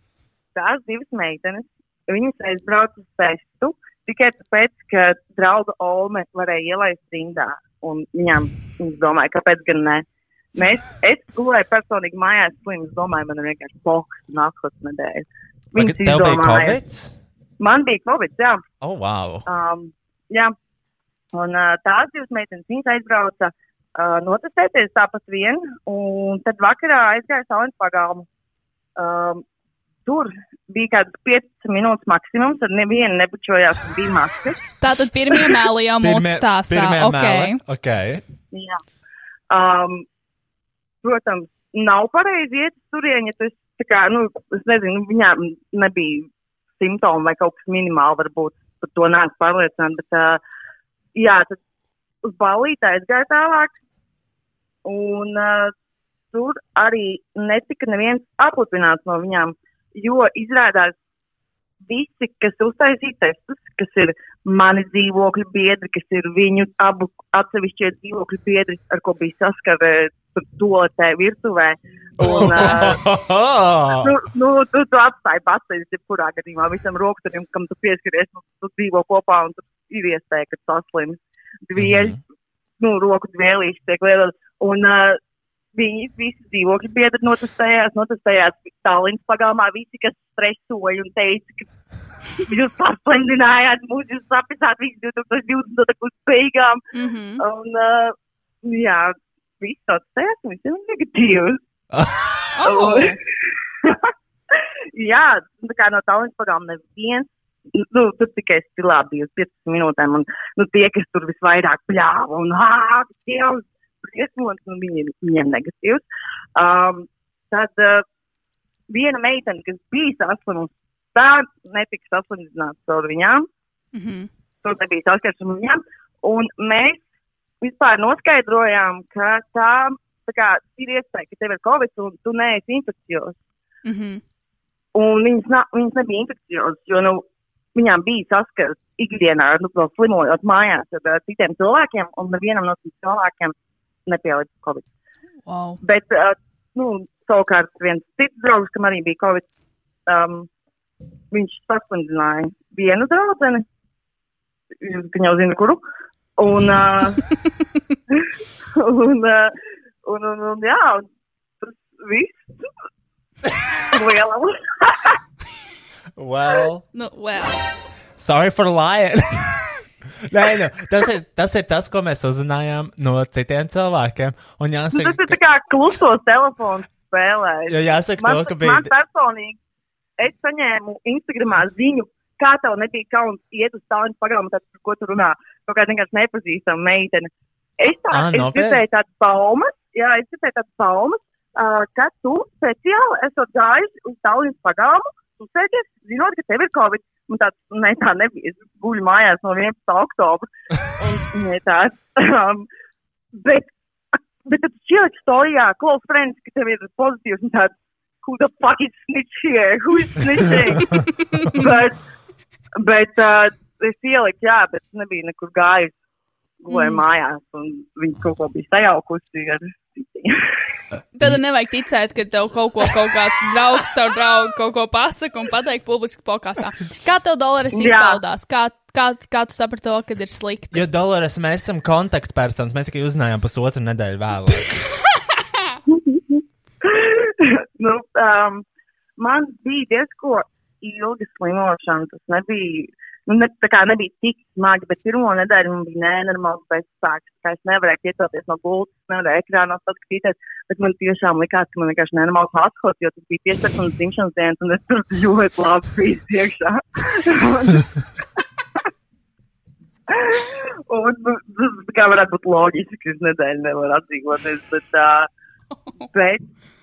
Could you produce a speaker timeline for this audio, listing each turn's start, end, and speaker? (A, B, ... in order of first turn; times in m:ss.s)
0:00.6-0:16.8 A
0:15.7-0:17.2 B
0:17.6-0:18.6 A
0:18.8-0:19.5 B
0:19.5-0:20.6 A
0:21.3-0:28.3 A
0:29.0-0:29.4 A
0:30.1-0:34.6 A
0:34.8-0:37.6 C
0:36.0-0:38.2 B
0:38.5-0:38.8 A
0:39.5-0:40.1 A
0:41.0-0:46.3 A
0:46.8-0:50.4 A
0:51.2-0:51.6 A
0:52.2-0:53.8 A
0:54.8-0:55.7 A
0:56.3-1:01.0 A
1:01.8-1:13.0 A
1:12.2-1:14.2 B
1:14.0-1:22.2 A
1:21.8-1:22.2 B
1:22.8-1:25.2 A
1:25.7-1:31.6 A
1:32.4-1:36.8 A
1:36.9-1:37.4 C
1:37.4-1:41.6 A
1:41.9-1:42.3 B
1:42.6-1:43.2 C
1:42.6-1:43.2 A
1:43.8-1:56.0 A
1:56.6-1:58.0 A
1:58.9-2:03.5 A
2:03.9-2:04.3 C
2:04.6-2:07.0 A
2:07.6-2:13.4 A
2:13.8-2:14.2 C
2:14.9-2:23.5 A
2:24.1-2:24.8 A
2:25.5-2:25.8 C
2:25.8-2:29.4 A
2:30.1-2:30.5 A
2:31.3-2:33.6 A
2:34.8-2:35.8 A
2:36.4-2:37.2 A
2:38.1-2:39.5 A
2:40.0-2:41.1 A
2:41.6-2:42.5 A
2:43.9-2:45.2 A
2:46.2-2:46.8 B
2:46.9-2:47.6 C
2:48.2-2:55.4 B
2:54.9-2:59.6 A
2:57.7-2:58.9 B
3:00.2-3:22.7 A
3:08.1-3:08.8 B
3:23.3-3:23.7 A
3:24.4-3:32.0 A
3:32.8-3:36.0 A
3:36.6-3:40.4 A
3:36.7-3:37.0 C
3:41.1-3:50.8 C
3:47.7-3:48.2 A
3:50.7-3:54.8 B
3:55.9-3:58.6 A
3:59.2-4:17.9 A
4:20.1-4:25.3 A
4:26.1-4:26.4 A